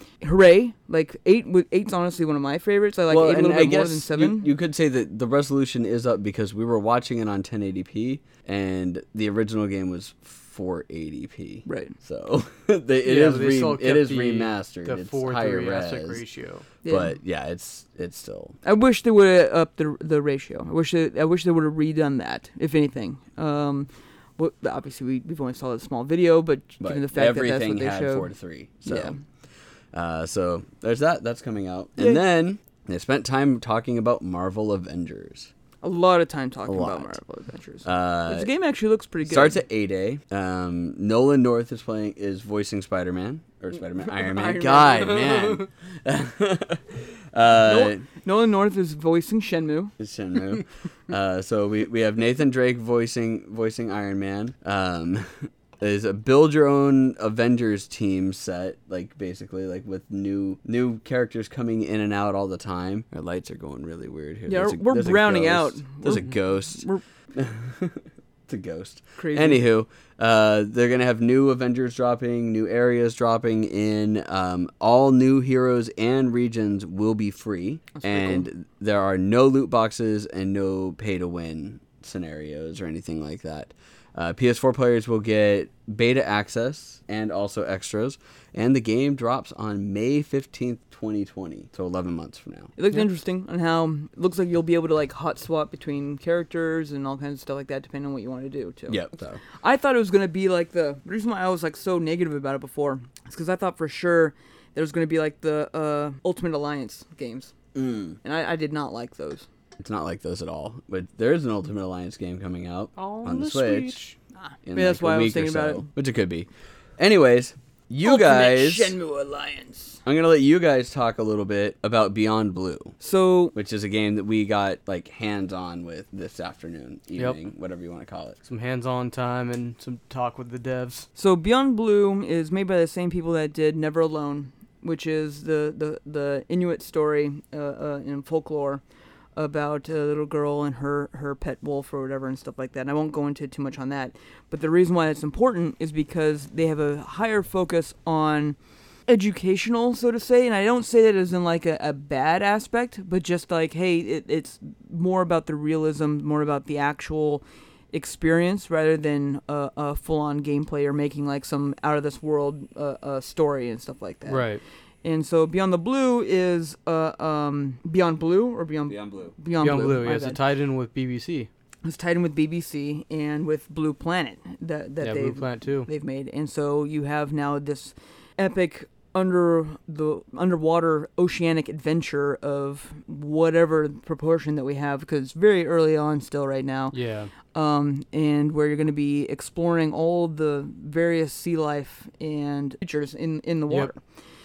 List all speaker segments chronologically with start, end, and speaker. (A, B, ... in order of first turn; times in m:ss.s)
0:00.2-0:04.5 A
0:03.1-0:16.2 B
0:11.6-0:11.9 A
0:13.0-0:16.6 C
0:16.8-0:17.1 A
0:16.9-0:18.6 B
0:18.6-0:28.3 A
0:26.8-0:29.1 B
0:28.8-0:29.2 A
0:29.9-0:35.5 B
0:35.8-0:39.6 A
0:36.6-0:37.2 B
0:37.8-0:38.5 B
0:39.2-0:48.0 B
0:44.0-0:45.4 A
0:47.6-0:49.9 A
0:50.0-1:32.7 B
1:04.5-1:07.0 A
1:09.2-1:09.6 A
1:17.9-1:18.5 A
1:32.8-1:47.5 A
1:38.9-1:39.4 B
1:47.7-1:48.2 B
1:48.2-1:49.5 A
1:49.8-1:54.0 B
1:53.0-1:54.2 C
1:54.5-1:55.9 A
1:54.6-1:56.5 B
1:57.0-1:59.0 B
1:58.0-2:00.0 A
2:00.0-2:02.9 B
2:03.0-2:03.5 A
2:03.5-2:08.4 B
2:08.4-2:11.1 C
2:11.2-2:18.8 A
2:19.4-2:28.6 A
2:29.1-2:44.4 A
2:44.3-2:44.6 C
2:45.0-2:50.4 A
2:48.9-2:49.3 B
2:49.6-2:51.5 C
2:51.8-3:07.0 A
2:55.0-2:55.9 C
3:06.9-3:07.3 C
3:07.5-3:14.0 A